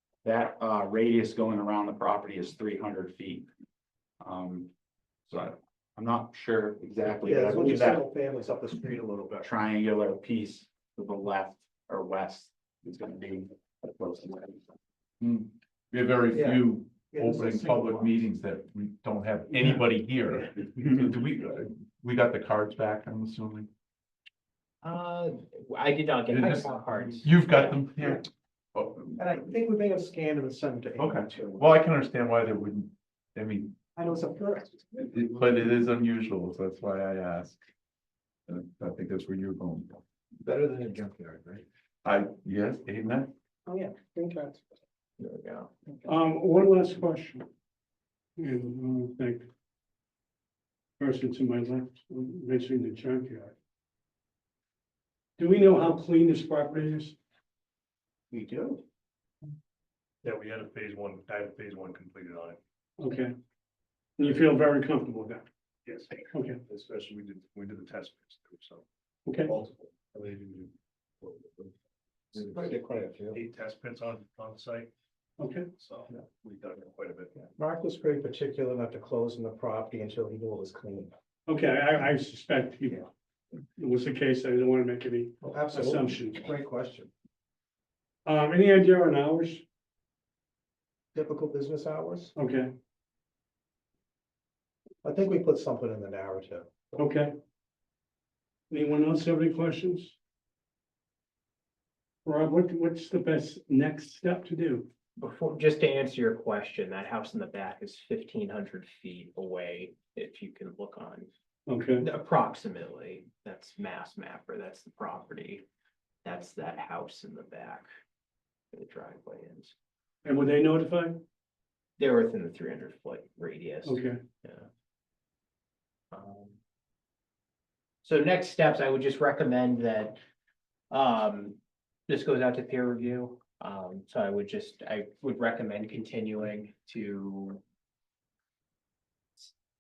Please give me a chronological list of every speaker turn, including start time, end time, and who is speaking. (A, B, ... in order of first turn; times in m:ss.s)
0:00.2-0:03.5 A
0:04.2-0:04.7 A
0:05.3-0:08.0 A
0:07.2-0:09.5 B
0:09.4-0:14.6 A
0:15.2-0:23.7 C
0:16.3-0:18.2 B
0:24.8-0:27.8 D
0:26.3-0:29.2 C
0:29.2-0:31.7 B
0:31.0-0:33.8 C
0:34.0-0:35.3 B
0:35.0-0:37.6 C
0:38.5-0:41.2 C
0:42.0-0:43.3 C
0:43.7-0:44.6 B
0:45.2-0:45.7 D
0:46.0-0:47.4 E
0:48.4-0:49.5 E
0:51.0-0:53.6 E
0:55.4-0:57.2 E
0:58.3-0:58.8 B
1:00.2-1:02.6 F
1:03.0-1:03.3 E
1:04.2-1:05.4 E
1:05.8-1:08.8 F
1:06.3-1:06.6 E
1:09.2-1:09.5 E
1:09.4-1:11.7 F
1:12.3-1:12.7 F
1:12.3-1:13.4 B
1:13.3-1:14.9 F
1:15.4-1:15.7 E
1:15.8-1:17.3 F
1:17.4-1:21.1 B
1:21.5-1:23.1 E
1:23.8-1:26.4 E
1:25.4-1:27.1 B
1:28.2-1:29.6 E
1:31.1-1:32.3 B
1:32.4-1:32.7 E
1:35.0-1:37.0 B
1:36.9-1:37.3 E
1:38.7-1:40.2 E
1:42.2-1:44.9 E
1:45.2-1:51.3 D
1:51.7-1:52.0 E
1:52.0-1:55.6 D
1:56.2-1:57.9 D
1:58.7-1:59.7 D
2:00.2-2:01.2 E
2:02.0-2:04.7 D
2:03.8-2:04.2 E
2:06.1-2:06.6 D
2:08.0-2:10.2 D
2:10.9-2:17.6 D